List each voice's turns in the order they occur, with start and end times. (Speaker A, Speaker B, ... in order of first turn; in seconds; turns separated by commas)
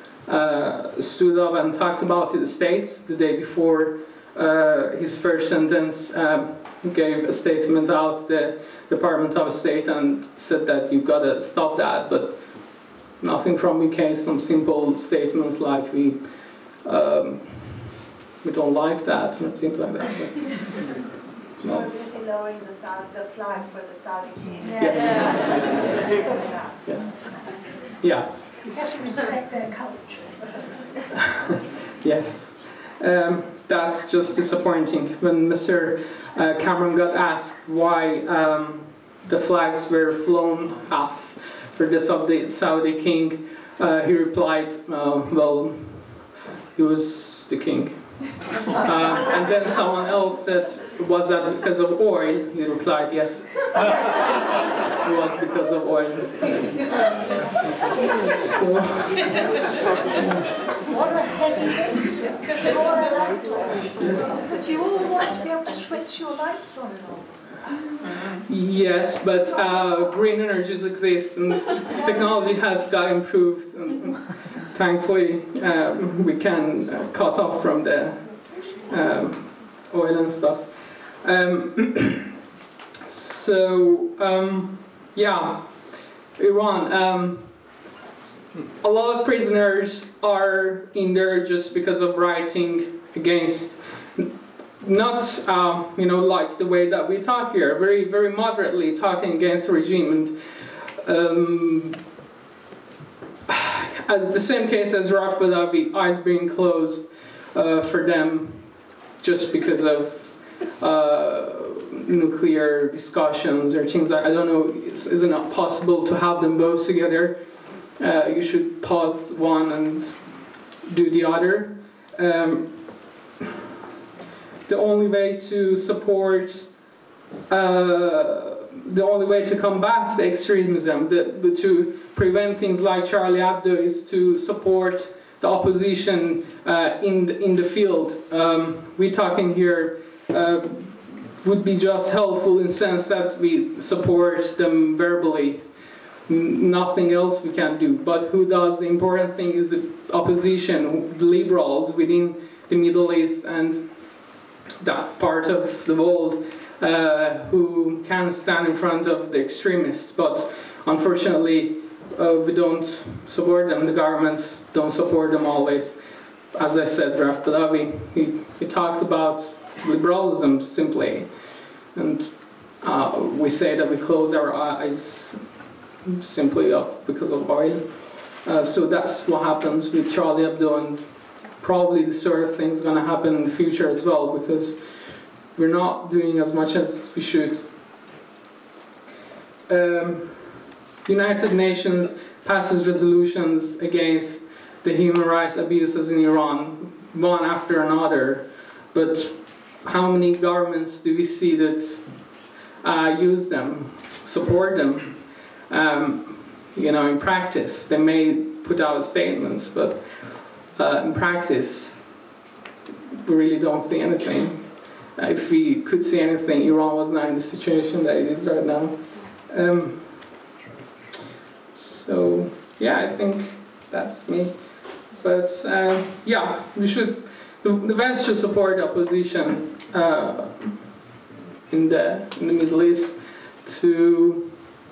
Speaker A: 0.2-20.9, Speaker A: 21.6-21.9, Speaker B: 21.9-24.8, Speaker A: 24.8-26.2, Speaker A: 26.8-28.4, Speaker B: 28.7-30.4, Speaker A: 32.0-46.2, Speaker A: 46.7-54.1, Speaker A: 55.0-56.9, Speaker A: 58.4-59.4, Speaker A: 60.1-60.5, Speaker B: 60.9-63.7, Speaker A: 63.9-64.3, Speaker B: 64.5-67.3, Speaker A: 68.4-82.3, Speaker A: 83.0-87.7, Speaker A: 88.8-102.0, Speaker A: 103.5-123.0, Speaker A: 124.7-126.7, Speaker A: 127.5-145.7, Speaker A: 146.2-153.8, Speaker A: 154.8-166.0, Speaker A: 166.5-187.6, Speaker A: 189.7-212.1, Speaker A: 213.2-220.4, Speaker A: 221.7-231.0, Speaker A: 231.7-234.6